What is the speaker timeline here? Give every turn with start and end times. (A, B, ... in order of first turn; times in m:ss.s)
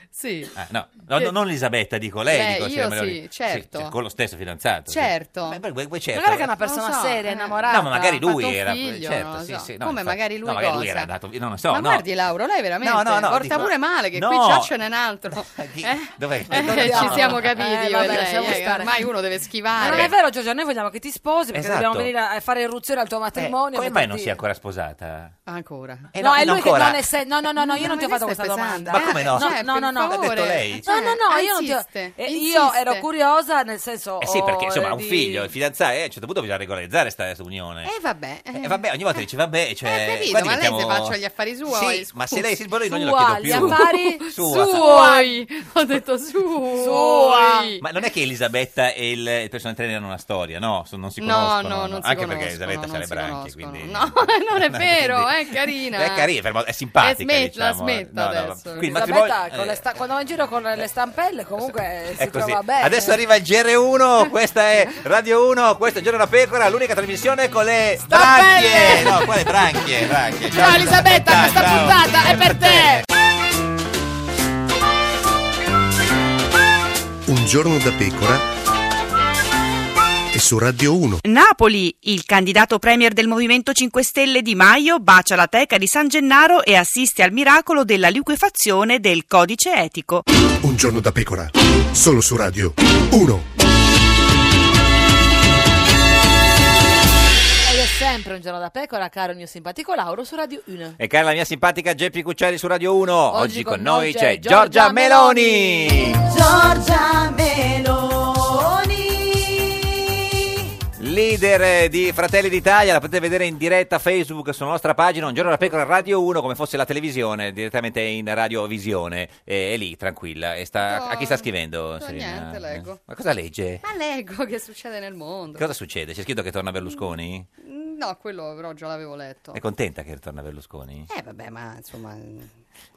0:00.1-0:00.5 A
0:00.6-0:06.5 B
0:02.3-0:03.9 A
0:04.9-0:05.6 A
0:06.1-0:07.8 C
0:06.6-0:11.1 A
0:07.6-0:12.1 B
0:11.7-0:20.1 A
0:12.8-0:14.7 B
0:15.3-0:17.6 B
0:16.5-0:18.9 C
0:19.8-0:24.4 C
0:19.8-0:20.1 B
0:21.5-0:22.1 B
0:23.4-0:25.3 B
0:25.4-0:26.1 A
0:26.1-0:27.0 B
0:26.2-0:30.3 C
0:27.7-0:33.0 A
0:28.9-0:30.8 B
0:30.8-0:35.5 C
0:34.2-0:37.9 B
0:37.8-0:39.2 A
0:38.5-0:45.1 B
0:39.8-0:42.4 A
0:42.9-0:45.3 C
0:43.6-0:47.8 A
0:46.8-0:47.7 C
0:47.0-0:59.8 B
0:51.2-0:56.3 A
0:57.0-0:58.9 A
0:58.9-1:03.1 C
1:02.2-1:13.0 B
1:08.1-1:09.3 C
1:10.5-1:13.0 C
1:17.2-1:18.4 D
1:20.3-1:21.2 D
1:21.2-1:30.2 E
1:30.6-1:33.4 D
1:37.6-1:41.0 C
1:41.0-1:46.2 B
1:43.3-1:45.9 C
1:46.1-1:50.2 F
1:51.0-2:03.8 B
2:00.8-2:03.0 A
2:03.8-2:05.7 A
2:05.6-2:07.5 B
2:07.6-2:09.6 A
2:09.5-2:11.1 B
2:11.1-2:12.6 A